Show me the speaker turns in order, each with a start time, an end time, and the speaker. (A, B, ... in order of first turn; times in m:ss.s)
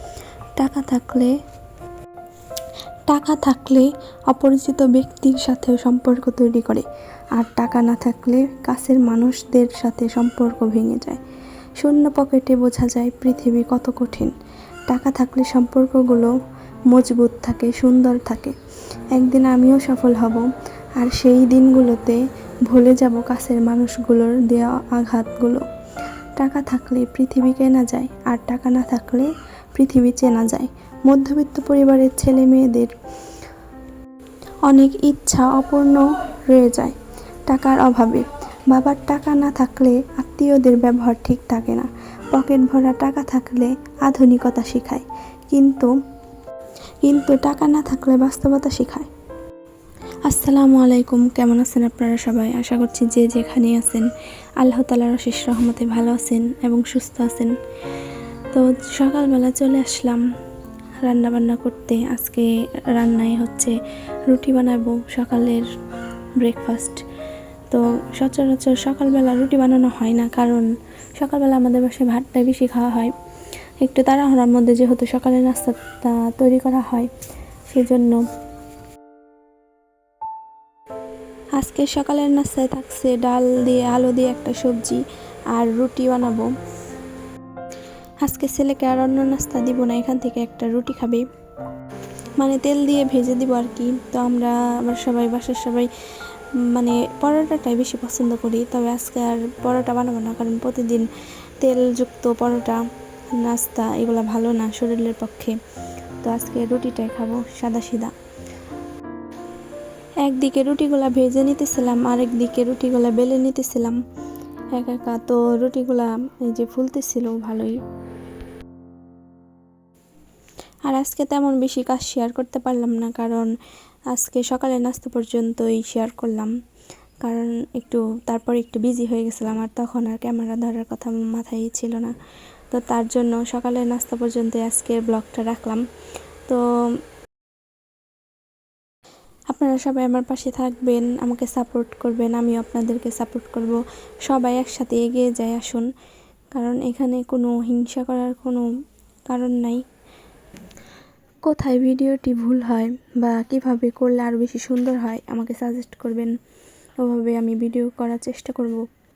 0:00.6-0:01.3 A
0:03.1-0:11.2 A
0:11.8-0:14.3 A
0:14.9-0:16.3 A
0:16.9-0:18.6 A
0:19.1-0:25.6 A
0:26.4-0:32.9 A
0:34.6-0:37.0 A
0:37.5-0:45.9 A
0:47.0-0:49.1 A
0:50.3-0:54.1 A
0:54.6-0:57.5 A
0:58.5-1:00.2 A
1:01.0-1:03.8 A
1:04.3-1:05.6 A
1:06.4-1:07.0 A
1:07.7-1:10.7 A
1:11.2-1:13.1 A
1:13.8-1:17.1 A
1:17.7-1:18.2 A
1:21.6-1:26.5 A
1:28.2-1:31.2 A
1:32.4-1:35.9 A
1:36.6-1:41.1 A
1:41.6-1:42.8 A
1:43.3-1:45.6 A
1:46.2-1:48.1 A
1:50.2-1:54.0 A
1:54.8-1:57.8 A
2:00.9-2:03.5 A
2:04.1-2:06.5 A
2:07.2-2:12.2 A
2:12.7-2:15.8 A
2:19.5-2:25.9 A
2:26.6-2:28.6 A
2:29.3-2:29.8 A
2:31.4-2:36.3 A
2:37.0-2:38.8 A